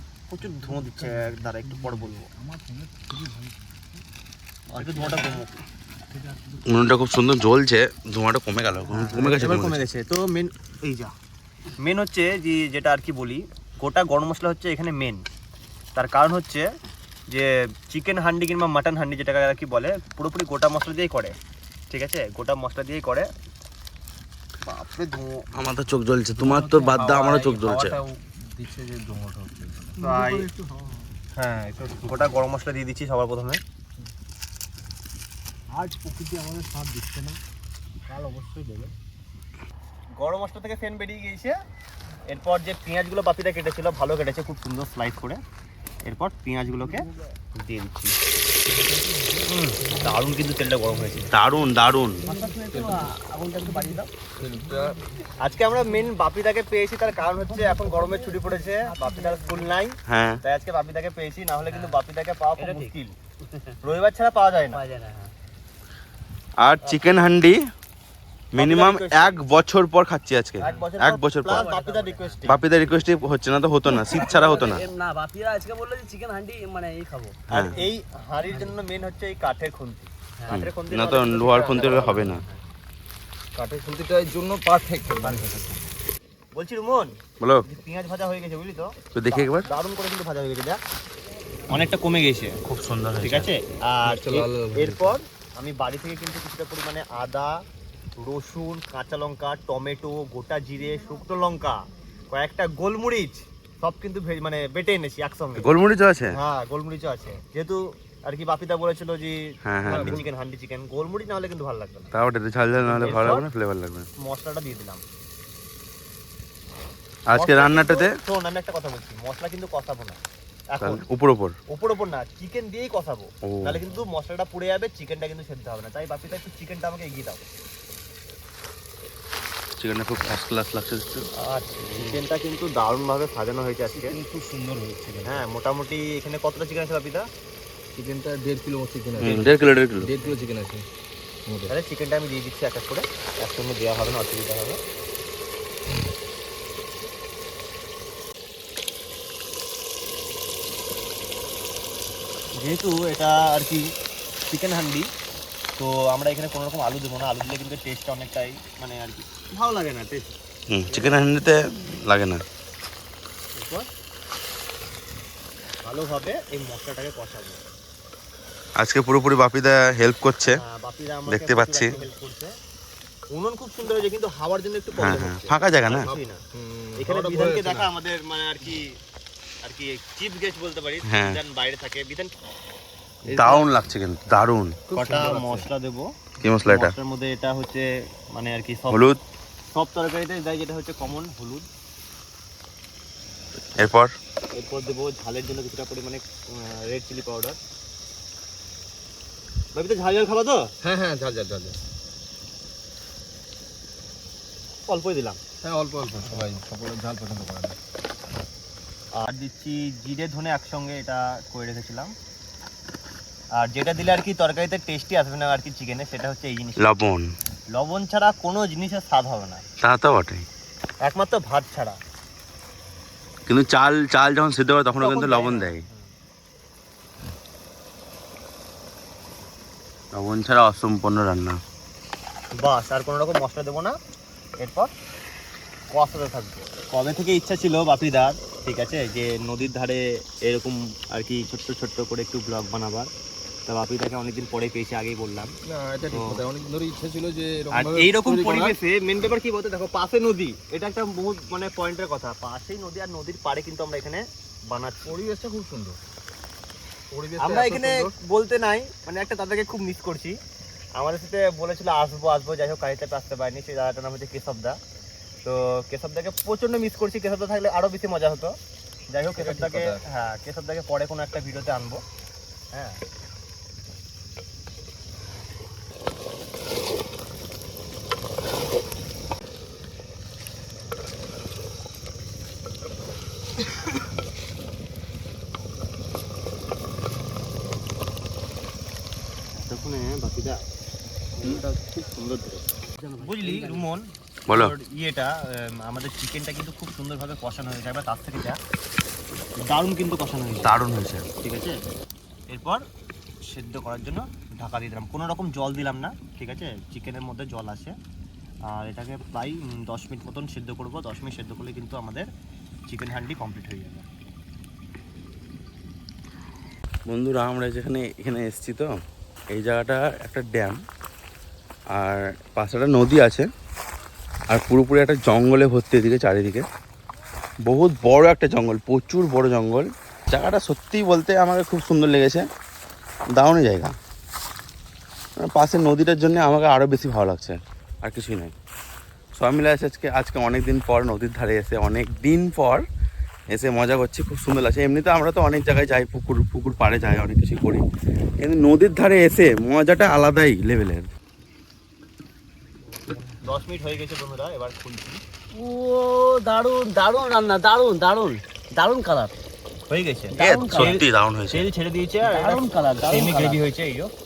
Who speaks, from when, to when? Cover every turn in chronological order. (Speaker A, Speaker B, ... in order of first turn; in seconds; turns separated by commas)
Speaker A: 0.3-2.3, Speaker B: 2.4-3.6, Speaker A: 4.7-5.5, Speaker B: 4.8-5.3, Speaker B: 6.3-6.6, Speaker C: 6.7-9.8, Speaker A: 8.9-11.1, Speaker A: 11.8-15.2, Speaker A: 15.9-16.7, Speaker A: 17.3-21.4, Speaker A: 21.9-23.3, Speaker A: 24.6-25.5, Speaker C: 25.5-28.0, Speaker B: 26.4-31.0, Speaker A: 30.0-30.5, Speaker A: 31.4-33.6, Speaker B: 31.6-32.2, Speaker B: 35.7-37.4, Speaker B: 38.1-38.9, Speaker A: 40.1-41.6, Speaker A: 42.2-45.4, Speaker A: 46.0-48.2, Speaker A: 49.4-51.3, Speaker C: 51.3-52.2, Speaker D: 52.2-54.1, Speaker B: 52.3-53.0, Speaker B: 54.4-55.0, Speaker A: 55.4-63.1, Speaker C: 60.1-60.4, Speaker D: 61.7-62.0, Speaker D: 62.6-62.9, Speaker A: 63.8-64.8, Speaker D: 64.7-65.3, Speaker C: 66.6-67.6, Speaker A: 66.8-67.3, Speaker C: 68.5-71.6, Speaker A: 68.5-69.4, Speaker A: 70.6-72.6, Speaker D: 71.5-72.4, Speaker C: 72.5-74.8, Speaker D: 73.9-77.8, Speaker C: 77.5-77.8, Speaker A: 77.5-82.2, Speaker D: 78.5-78.8, Speaker C: 80.5-82.4, Speaker D: 81.7-82.6, Speaker B: 83.5-85.8, Speaker A: 85.2-85.5, Speaker A: 86.5-90.8, Speaker C: 87.4-87.6, Speaker C: 89.1-89.7, Speaker A: 91.7-92.6, Speaker C: 92.6-93.5, Speaker A: 93.2-97.6, Speaker B: 94.0-95.2, Speaker A: 98.2-105.7, Speaker C: 105.5-106.4, Speaker A: 106.3-112.1, Speaker C: 109.6-110.2, Speaker B: 109.9-110.2, Speaker C: 112.1-114.1, Speaker A: 112.7-113.5, Speaker A: 114.2-115.0, Speaker C: 117.3-118.1, Speaker A: 117.3-120.2, Speaker A: 120.7-121.0, Speaker C: 120.8-121.5, Speaker A: 121.7-127.4, Speaker C: 123.4-123.8, Speaker C: 129.8-131.3, Speaker A: 131.3-134.2, Speaker B: 133.9-135.4, Speaker A: 135.2-137.3, Speaker B: 137.9-140.8, Speaker C: 139.2-140.1, Speaker A: 139.2-139.6, Speaker B: 141.4-141.7, Speaker A: 141.7-144.8, Speaker A: 152.6-153.9, Speaker A: 154.5-155.1, Speaker A: 155.8-160.3, Speaker C: 160.7-162.4, Speaker A: 160.9-161.2, Speaker A: 163.5-163.9, Speaker A: 165.8-167.6, Speaker C: 168.8-170.6, Speaker A: 170.4-172.6, Speaker C: 171.3-171.9, Speaker A: 173.3-179.0, Speaker C: 175.0-176.1, Speaker B: 176.6-177.9, Speaker A: 179.6-182.3, Speaker C: 181.1-181.4, Speaker B: 183.3-183.7, Speaker C: 183.3-184.8, Speaker B: 184.9-185.7, Speaker A: 184.9-186.1, Speaker C: 186.4-186.9, Speaker A: 186.6-189.1, Speaker C: 188.9-189.2, Speaker A: 189.7-191.7, Speaker C: 193.8-194.1, Speaker A: 194.5-197.6, Speaker A: 199.7-200.7, Speaker B: 200.8-201.8, Speaker A: 204.9-205.4, Speaker B: 205.6-207.8, Speaker A: 209.1-212.1, Speaker A: 213.5-216.8, Speaker C: 216.8-217.3, Speaker A: 217.7-219.6, Speaker C: 219.8-220.5, Speaker A: 221.0-222.0, Speaker C: 223.5-225.8, Speaker A: 225.0-226.1, Speaker C: 230.1-231.6, Speaker A: 232.5-234.0, Speaker A: 234.6-234.9, Speaker A: 235.9-243.1, Speaker A: 243.7-245.5, Speaker B: 245.6-248.8, Speaker A: 246.1-246.4, Speaker A: 247.7-255.1, Speaker B: 255.0-256.0, Speaker B: 257.1-258.1, Speaker A: 257.4-260.4, Speaker A: 260.9-264.8, Speaker A: 265.4-272.0, Speaker B: 269.3-270.0, Speaker A: 272.7-273.0, Speaker A: 289.5-290.6, Speaker D: 291.4-291.7, Speaker A: 291.4-292.6, Speaker D: 293.0-293.9, Speaker A: 293.2-298.6, Speaker C: 294.5-294.7, Speaker A: 299.6-300.8, Speaker C: 300.6-301.2, Speaker A: 301.4-301.8, Speaker A: 302.5-302.8, Speaker A: 303.4-307.9, Speaker A: 308.7-312.3, Speaker A: 312.9-314.1, Speaker C: 317.1-318.9, Speaker C: 319.5-320.8, Speaker C: 321.9-323.5, Speaker C: 324.5-326.6, Speaker C: 327.6-332.5, Speaker C: 333.3-333.9, Speaker C: 335.4-338.5, Speaker C: 339.3-342.8, Speaker C: 343.5-347.8, Speaker C: 348.4-351.1, Speaker A: 353.4-355.2, Speaker D: 355.5-359.3, Speaker A: 359.9-364.1, Speaker D: 360.3-361.0, Speaker C: 360.4-361.6, Speaker D: 362.2-363.6